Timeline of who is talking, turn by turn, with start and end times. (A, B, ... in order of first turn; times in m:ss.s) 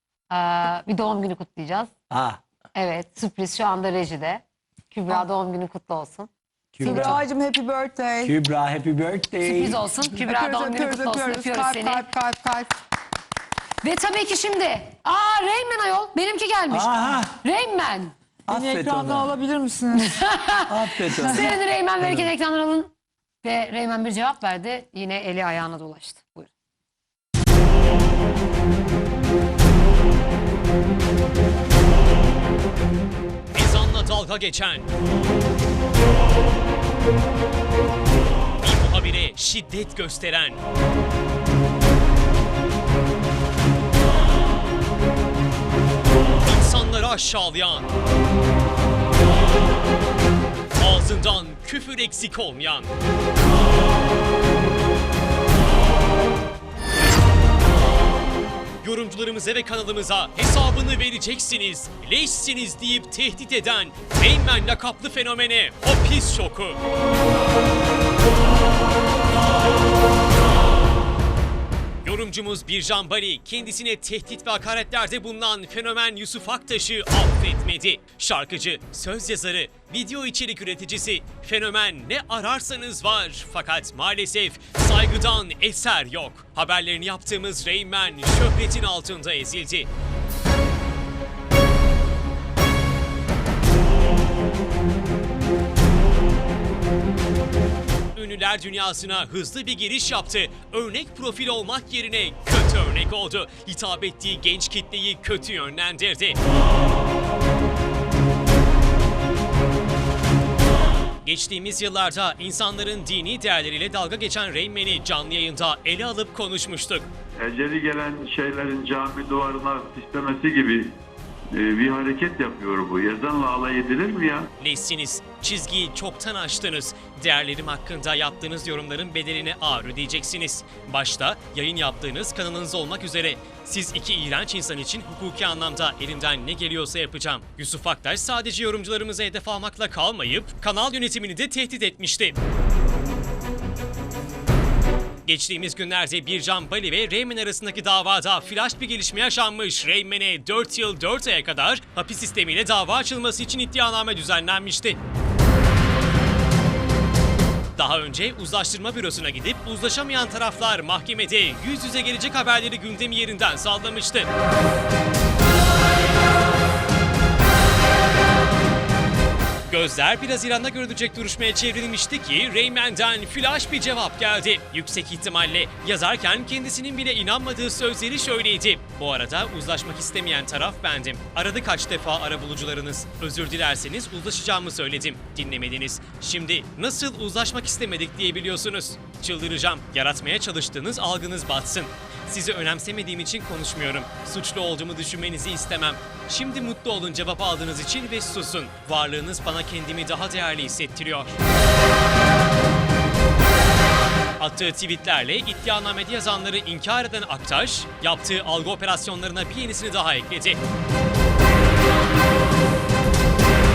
0:00.3-0:01.9 A
0:02.1-0:02.4 B
0:02.7-0:06.3 A
0:06.7-0:07.2 B
0:06.8-0:08.3 C
0:06.8-0:07.2 A
0:08.2-0:09.8 B
0:09.4-0:12.1 A
0:10.2-0:12.8 C
0:13.8-0:18.1 A
0:16.7-0:17.4 B
0:18.5-0:19.3 B
0:18.5-0:20.1 C
0:19.9-0:26.5 A
0:20.7-0:22.3 B
0:33.5-0:34.9 D
0:38.6-0:40.6 D
0:46.4-0:47.9 D
0:50.8-0:52.9 D
0:58.8-1:06.8 D
1:12.0-1:29.9 D
1:38.1-1:46.4 D
1:51.2-1:57.1 D
1:57.4-2:00.9 E
2:01.5-2:04.5 E
2:04.6-2:22.4 D
2:25.2-2:35.0 D
2:37.8-2:44.3 D
2:49.7-3:21.4 D
3:24.4-3:30.6 D